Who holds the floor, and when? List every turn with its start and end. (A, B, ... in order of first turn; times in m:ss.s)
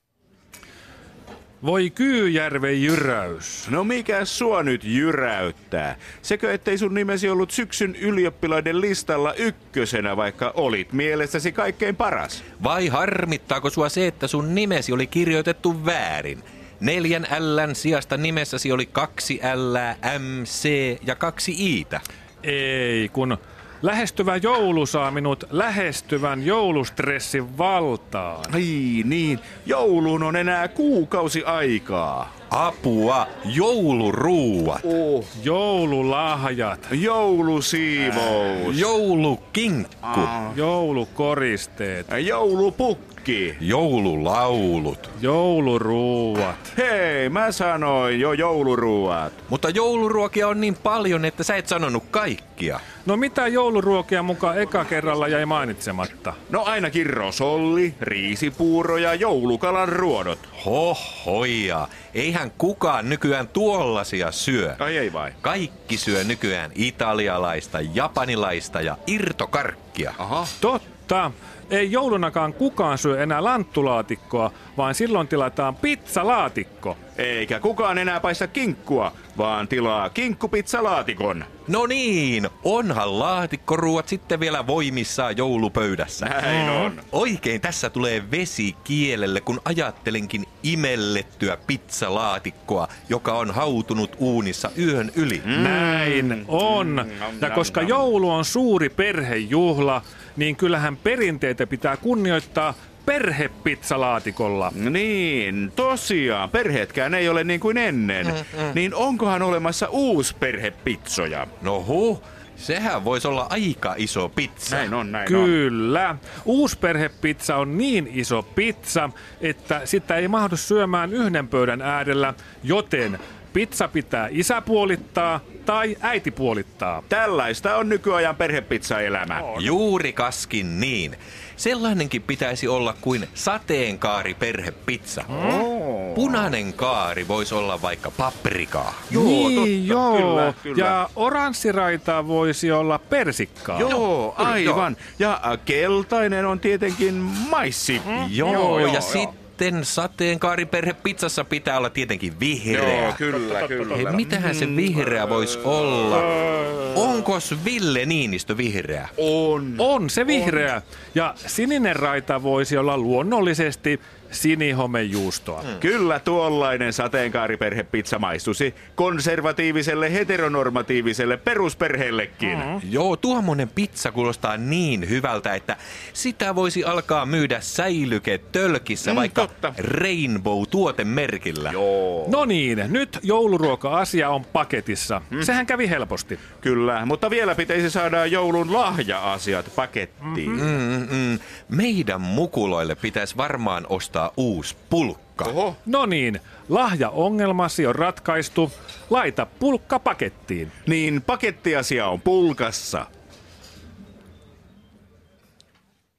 0:01.6-0:03.7 A
0:03.6-0:12.4 B
0:12.6-0:22.0 C
0:22.4-0:28.5 A
0:28.5-0:32.3 B
0:32.5-0:34.9 C
0:34.8-0:35.3 B
0:35.3-0:36.9 A
0:36.9-0:38.8 B
0:38.2-0:40.4 C
0:40.1-0:40.6 B
0:40.5-0:42.1 A
0:42.1-0:43.6 B
0:43.6-0:45.1 C
0:45.2-0:46.7 A
0:46.8-0:49.4 B
0:49.5-0:52.8 C
0:53.0-0:56.4 A
0:56.5-1:00.5 B
1:00.6-1:04.8 C
1:04.8-1:05.4 B
1:05.4-1:10.2 C
1:10.2-1:10.5 B
1:10.6-1:17.0 A
1:17.2-1:21.5 B
1:21.7-1:26.4 C
1:26.2-1:27.0 B
1:26.6-1:26.9 A
1:27.0-1:35.5 C
1:35.4-1:38.1 B
1:35.5-1:44.7 A
1:44.7-1:51.5 B
1:48.2-1:48.8 C
1:51.6-1:54.9 C
1:54.7-1:55.6 B
1:55.2-2:07.1 A
2:07.1-2:09.5 B
2:09.4-2:09.7 A
2:09.5-2:15.4 C
2:15.3-2:15.6 A
2:15.3-2:16.5 B
2:16.2-2:19.2 C
2:19.1-2:24.0 A
2:19.1-2:21.0 B
2:23.8-2:29.2 B
2:23.9-2:24.9 C
2:28.2-2:33.2 C
2:28.2-2:29.0 A
2:32.7-2:35.2 B
2:33.9-2:39.1 C
2:39.2-2:39.8 B
2:39.8-2:45.7 A
2:45.7-2:52.7 B
2:52.4-2:52.8 A
2:52.8-3:01.8 C
2:59.0-2:59.8 B
3:01.7-3:02.4 B
3:02.3-3:06.4 A
3:06.6-3:10.7 B
3:10.3-3:10.6 A
3:10.5-3:15.6 C
3:15.4-3:15.8 B
3:15.9-3:20.7 A
3:20.9-3:23.1 B